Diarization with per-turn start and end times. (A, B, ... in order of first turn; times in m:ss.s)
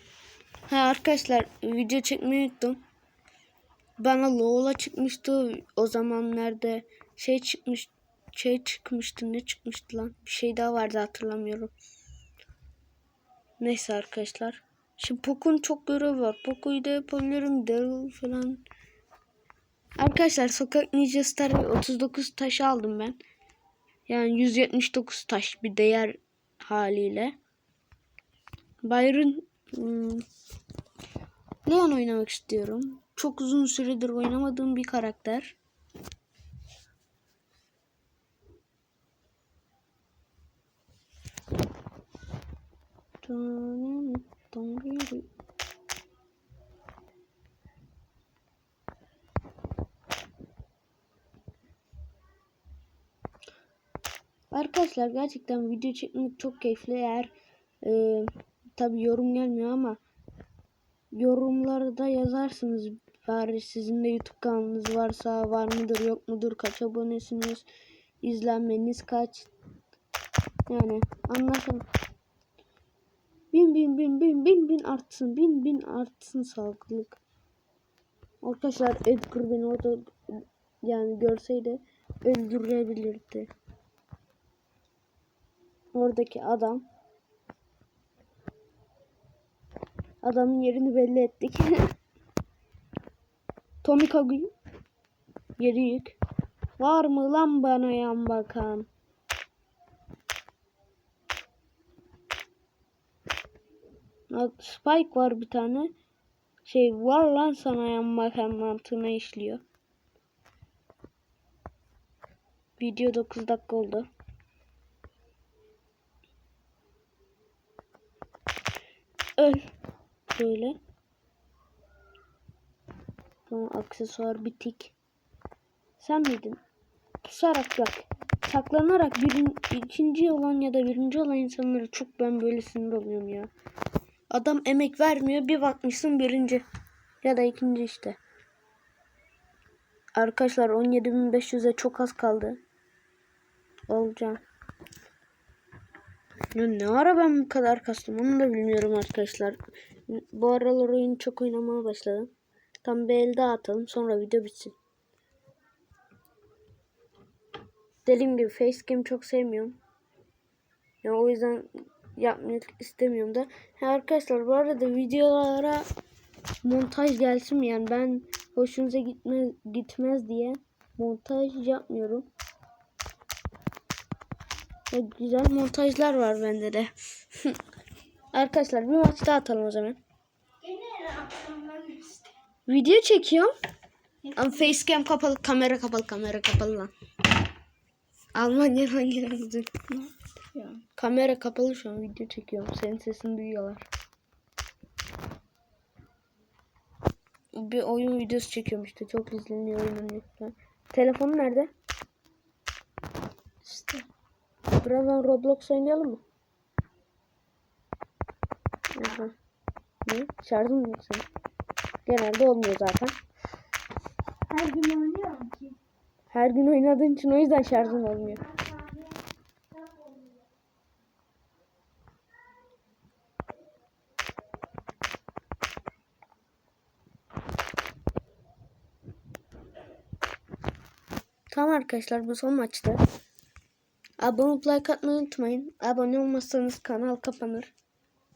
0:00.7-0:02.8 A
0:04.0-0:11.7 A
0:13.6-0:18.6 A
0:20.0-0:23.2 A
0:24.1-0:27.4 A
0:28.8-0:30.2 A
0:31.6-0:35.6 A
0:43.2-0:45.3 A
0:54.5-1:00.0 A
1:01.1-1:07.7 A
1:08.2-1:09.5 A
1:10.7-1:11.8 A
1:13.5-1:17.2 A
1:18.4-1:23.5 A
1:25.9-1:26.8 A
1:30.2-1:31.8 A
1:33.8-1:34.5 A
1:35.6-1:36.2 A
1:36.8-1:38.9 A
1:44.3-1:45.9 A
1:46.6-1:49.6 A
1:52.8-1:54.1 A
1:59.4-1:59.7 A
2:00.3-2:00.8 A
2:03.5-2:05.0 A
2:06.0-2:06.6 A
2:07.2-2:13.5 A
2:14.3-2:16.6 A
2:17.2-2:18.2 A
2:20.2-2:22.6 A
2:23.9-2:24.4 A
2:26.5-2:32.3 A
2:32.8-2:34.7 A
2:38.0-2:39.8 A
2:41.0-2:45.8 A
2:46.6-2:52.3 A
2:54.9-2:57.6 A
2:58.3-3:00.0 A
3:00.6-3:02.3 B
3:02.7-3:03.5 A
3:04.3-3:06.9 A
3:08.3-3:09.7 A
3:09.9-3:10.8 B
3:11.0-3:13.8 A
3:17.6-3:21.7 A
3:23.6-3:24.0 B
3:24.7-3:26.2 A
3:28.9-3:29.3 A
3:30.0-3:31.2 A
3:32.0-3:33.2 A
3:34.5-3:35.7 B
3:36.3-3:38.5 A
3:38.6-3:39.0 B
3:51.5-3:53.0 A
3:54.2-3:57.7 A